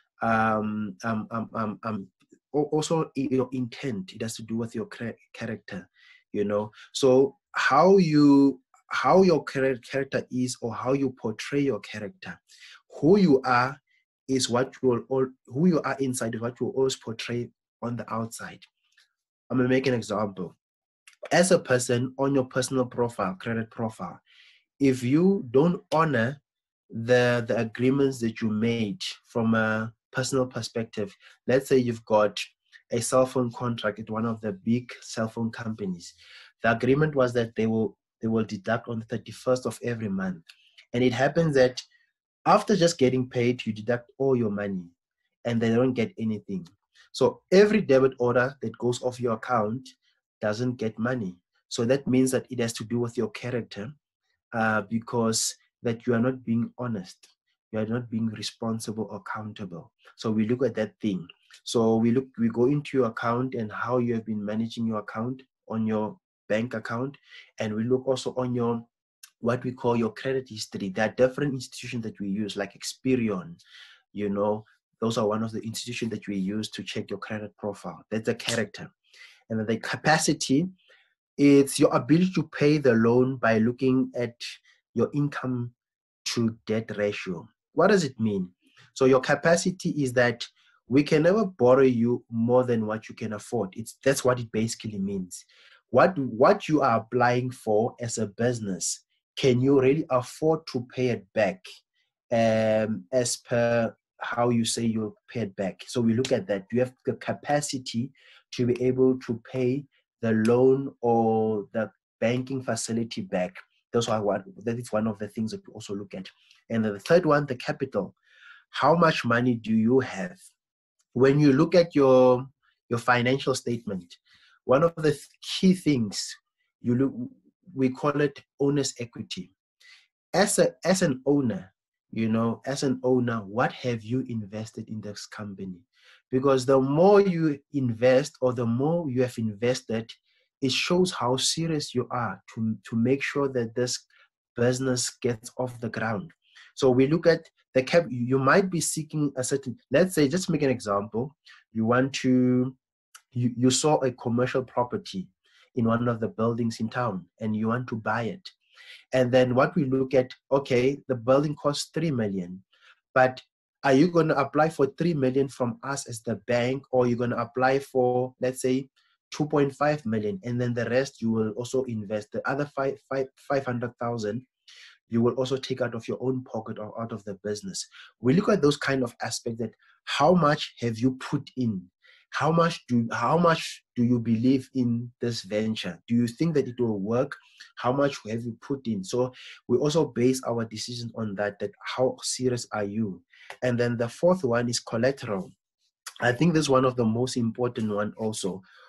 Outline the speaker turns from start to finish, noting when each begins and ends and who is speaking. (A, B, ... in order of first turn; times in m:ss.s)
0:00.2-0:18.6 A
0:19.5-0:20.6 A
0:21.3-0:24.2 A
0:24.8-0:41.8 A
0:42.4-0:44.9 A
0:45.4-0:53.9 A
0:54.5-1:08.9 A
1:09.4-1:13.6 A
1:14.1-1:18.9 A
1:19.5-1:20.7 A
1:21.4-1:25.7 A
1:26.2-1:41.6 A
1:42.3-1:58.1 A
1:58.7-2:00.4 A
2:01.1-2:09.5 A
2:10.3-2:32.7 A
2:33.3-2:38.5 A
2:39.1-2:42.6 A
2:43.1-2:54.4 A
2:55.1-3:15.5 A
3:16.2-3:18.6 A